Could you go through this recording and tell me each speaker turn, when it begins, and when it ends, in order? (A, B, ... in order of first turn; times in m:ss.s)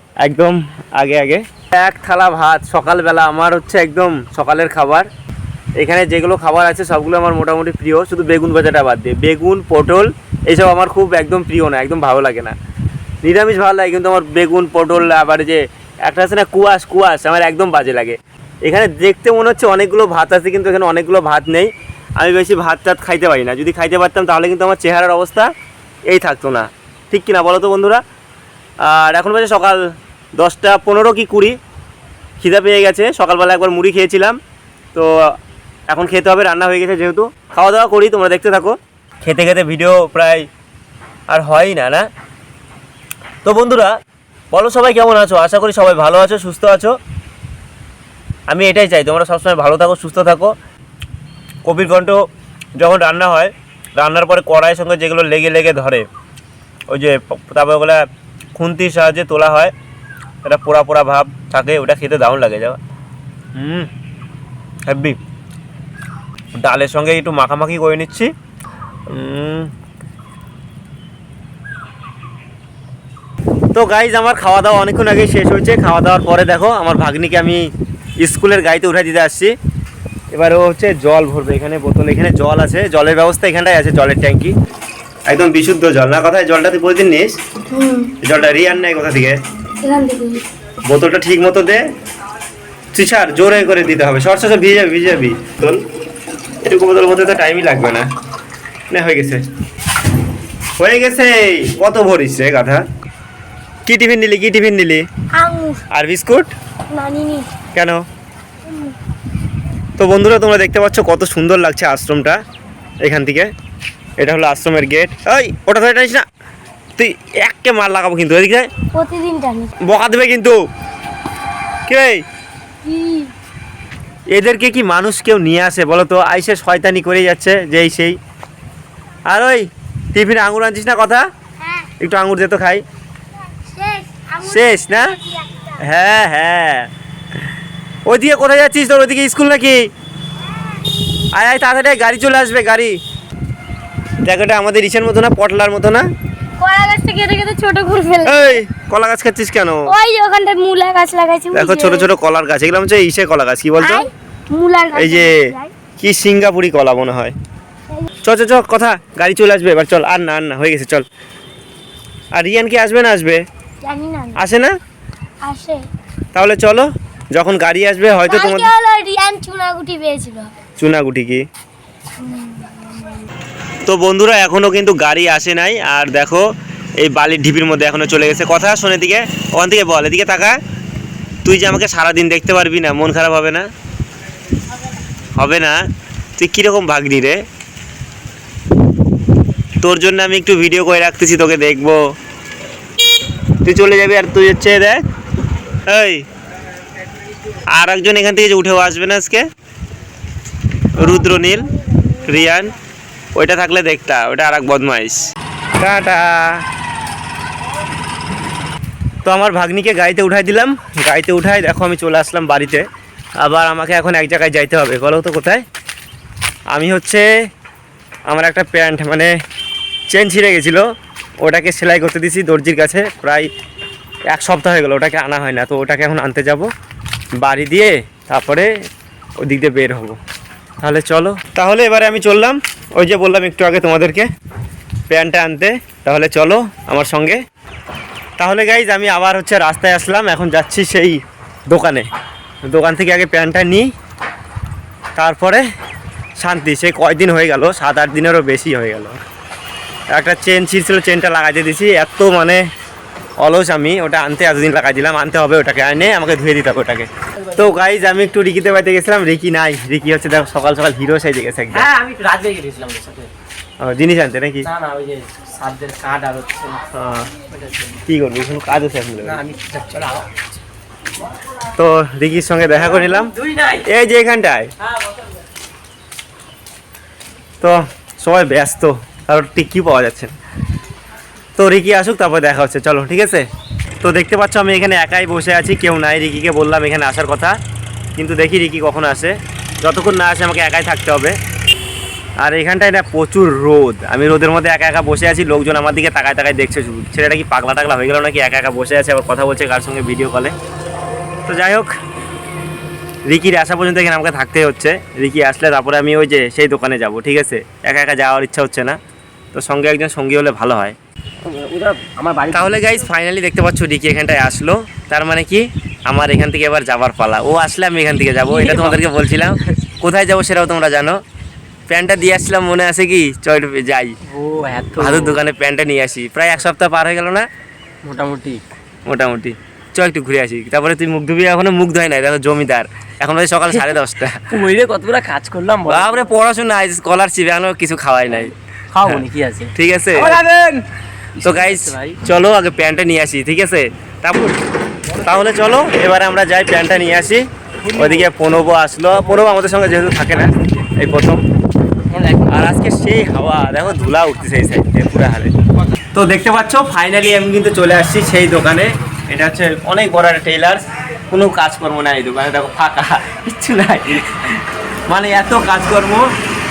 0:00.2-0:05.1 A
0:05.8-0:12.5 A
0:13.2-0:25.5 A
0:26.1-0:28.0 A
0:28.8-0:29.8 A
0:30.4-0:31.6 A
0:32.4-0:34.4 A
0:35.9-0:40.4 A
0:41.3-0:42.0 A
0:43.4-0:43.9 A
0:44.5-0:46.9 A
0:48.5-0:50.5 A
0:51.6-0:52.2 A
0:52.8-0:56.1 A
0:56.9-0:59.7 A
1:00.4-1:02.8 A
1:03.6-1:03.9 A
1:04.8-1:05.2 A
1:06.6-1:08.3 A
1:09.1-1:09.7 A
1:13.7-1:17.6 A
1:18.2-1:19.5 A
1:20.3-1:24.5 A
1:25.3-1:27.3 A
1:27.7-1:28.1 B
1:28.2-1:29.4 A
1:29.8-1:30.4 B
1:30.8-1:31.8 A
1:32.9-1:35.8 A
1:36.6-1:38.1 A
1:38.9-1:39.4 A
1:40.8-1:42.8 A
1:43.8-1:45.0 A
1:45.4-1:45.8 B
1:45.9-1:46.5 A
1:46.9-1:47.5 B
1:47.7-1:48.0 A
1:48.7-1:48.9 B
1:50.0-1:52.4 A
1:53.0-1:53.5 A
1:54.2-1:56.2 A
1:57.0-1:58.7 A
1:58.9-1:59.7 B
1:59.8-2:00.6 A
2:01.9-2:02.2 A
2:02.8-2:03.3 B
2:04.3-2:08.2 A
2:09.3-2:11.2 A
2:11.6-2:11.9 B
2:12.0-2:12.8 A
2:13.6-2:15.8 B
2:14.4-2:15.2 A
2:15.8-2:16.9 A
2:18.1-2:19.9 A
2:21.3-2:23.0 A
2:24.2-2:26.0 A
2:26.6-2:28.6 B
2:28.2-2:29.9 A
2:29.9-2:32.1 B
2:31.5-2:34.1 A
2:33.8-2:35.7 B
2:34.9-2:37.3 A
2:38.2-2:41.0 A
2:42.3-2:43.4 A
2:43.8-2:44.4 B
2:44.4-2:44.8 A
2:45.4-2:45.8 B
2:46.3-2:48.7 A
2:48.2-2:50.5 B
2:50.8-2:51.4 A
2:52.2-2:53.2 B
2:53.9-2:56.4 A
2:57.0-3:00.5 A
3:01.4-3:03.6 A
3:05.4-3:05.8 A
3:06.4-3:07.4 A
3:09.8-3:12.0 A
3:13.6-3:15.0 A
3:15.9-3:16.2 A
3:17.7-3:19.4 A
3:20.9-3:21.7 A
3:22.2-3:22.7 A
3:23.3-3:25.2 A
3:25.8-3:26.6 A
3:29.2-3:32.8 A
3:33.4-3:35.6 A
3:36.7-3:37.2 A
3:38.3-3:39.3 A
3:40.1-3:40.8 A
3:41.4-3:43.5 A
3:44.3-3:46.7 A
3:47.4-3:48.7 A
3:49.4-3:50.2 A
3:50.8-3:54.3 A
3:55.1-3:57.4 A
3:58.4-4:02.1 A
4:02.7-4:03.9 A
4:05.2-4:05.6 A
4:06.4-4:09.2 A
4:10.1-4:12.6 A
4:13.4-4:21.9 A
4:21.7-4:23.3 C
4:23.8-4:24.7 A
4:24.6-4:26.8 C
4:26.9-4:27.3 A
4:27.5-4:28.0 C
4:28.0-4:29.4 A
4:29.2-4:30.4 C
4:31.8-4:33.3 A
4:32.8-4:33.9 C
4:33.8-4:34.7 A
4:37.6-4:40.3 A
4:41.6-4:43.4 A
4:44.0-4:47.6 A
4:48.2-4:51.4 A
4:52.4-5:00.5 A
5:01.5-5:01.9 A
5:03.3-5:09.0 A
5:09.5-5:11.0 A
5:11.4-5:13.1 C
5:12.5-5:21.2 A
5:18.4-5:19.0 C
5:21.9-5:24.1 A
5:24.3-5:25.4 C
5:25.0-5:27.5 A
5:28.0-5:28.6 C
5:29.0-5:34.4 A
5:33.7-5:36.3 C
5:35.9-5:38.5 A
5:38.9-5:40.8 C
5:39.7-5:40.4 A
5:41.4-5:42.2 C
5:41.4-5:44.5 A
5:45.2-5:51.4 A
5:47.8-5:48.3 C
5:50.3-5:50.7 C
5:52.1-5:52.8 C
5:52.5-5:55.5 A
5:56.1-6:06.3 A